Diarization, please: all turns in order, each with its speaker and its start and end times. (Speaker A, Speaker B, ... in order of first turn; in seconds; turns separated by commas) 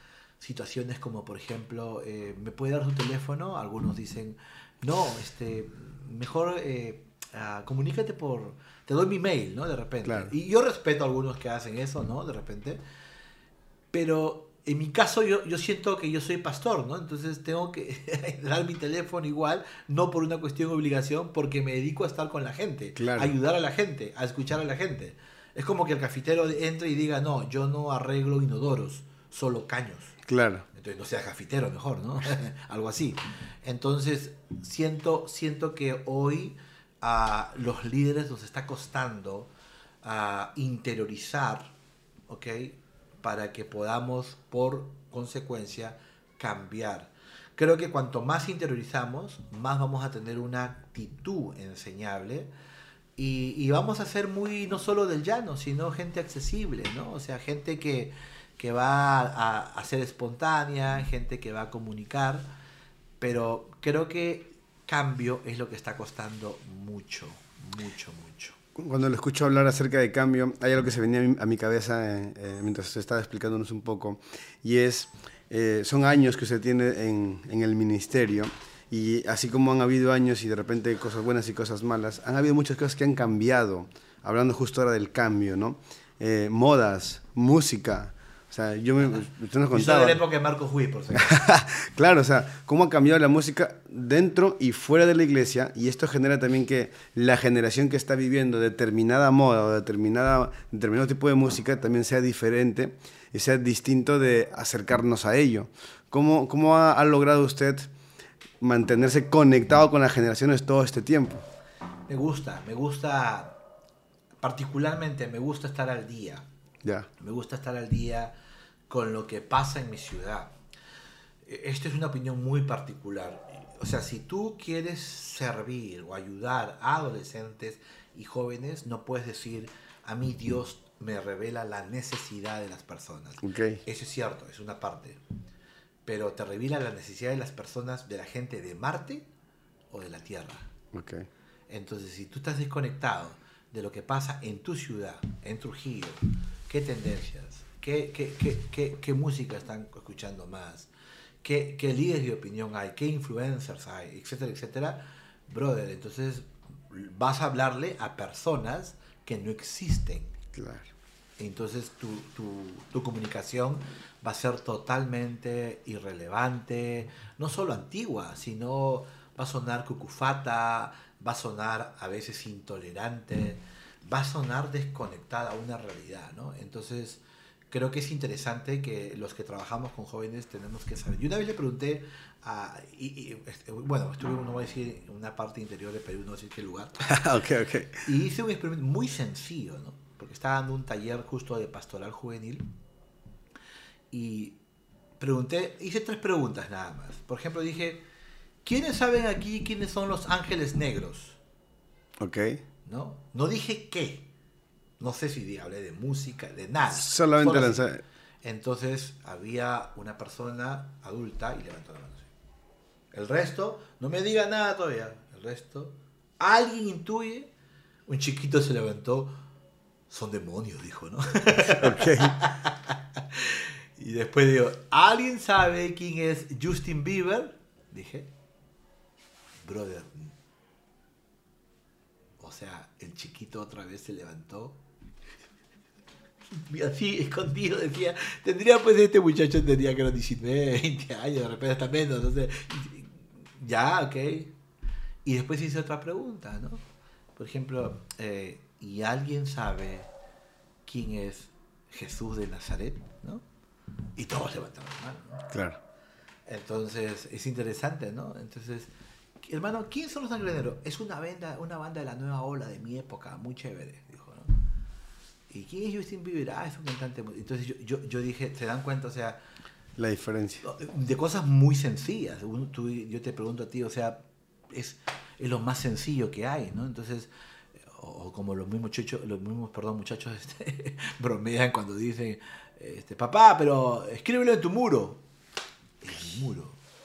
Speaker A: 0.4-12.8, Speaker B: 10.0-10.3, Speaker A: 13.9-30.1, Speaker B: 22.9-23.3, Speaker B: 30.2-30.6, Speaker A: 30.7-39.5, Speaker A: 40.0-41.7, Speaker A: 42.3-52.5, Speaker A: 53.1-62.5, Speaker A: 63.2-68.6, Speaker B: 68.8-90.2, Speaker A: 89.7-91.4, Speaker B: 91.1-107.9, Speaker B: 108.6-111.4, Speaker A: 112.1-113.6, Speaker A: 114.4-116.5, Speaker A: 117.2-118.3, Speaker A: 118.9-120.5, Speaker A: 121.4-135.2, Speaker B: 133.4-133.8, Speaker A: 136.0-139.3, Speaker A: 139.9-140.7, Speaker B: 140.9-141.3, Speaker A: 141.7-150.9, Speaker A: 151.4-160.3, Speaker B: 160.5-160.9, Speaker A: 161.4-186.9, Speaker B: 187.0-188.0, Speaker A: 188.1-192.7, Speaker A: 194.1-194.6, Speaker A: 195.2-198.0, Speaker A: 198.6-201.4, Speaker B: 202.2-202.6, Speaker A: 202.8-204.3, Speaker A: 205.0-207.9, Speaker B: 206.9-208.0, Speaker A: 208.4-212.3, Speaker A: 213.1-217.5, Speaker A: 218.1-219.4, Speaker A: 220.1-228.3, Speaker B: 221.7-222.3, Speaker A: 229.6-230.3, Speaker A: 232.4-234.8, Speaker A: 236.5-244.5, Speaker A: 245.2-246.8, Speaker A: 247.4-250.1, Speaker A: 250.8-253.4, Speaker A: 254.2-255.4, Speaker B: 255.5-255.8, Speaker A: 256.4-258.9, Speaker A: 259.4-264.6, Speaker A: 265.5-269.4, Speaker B: 270.0-270.6, Speaker A: 270.6-285.2, Speaker A: 286.0-286.8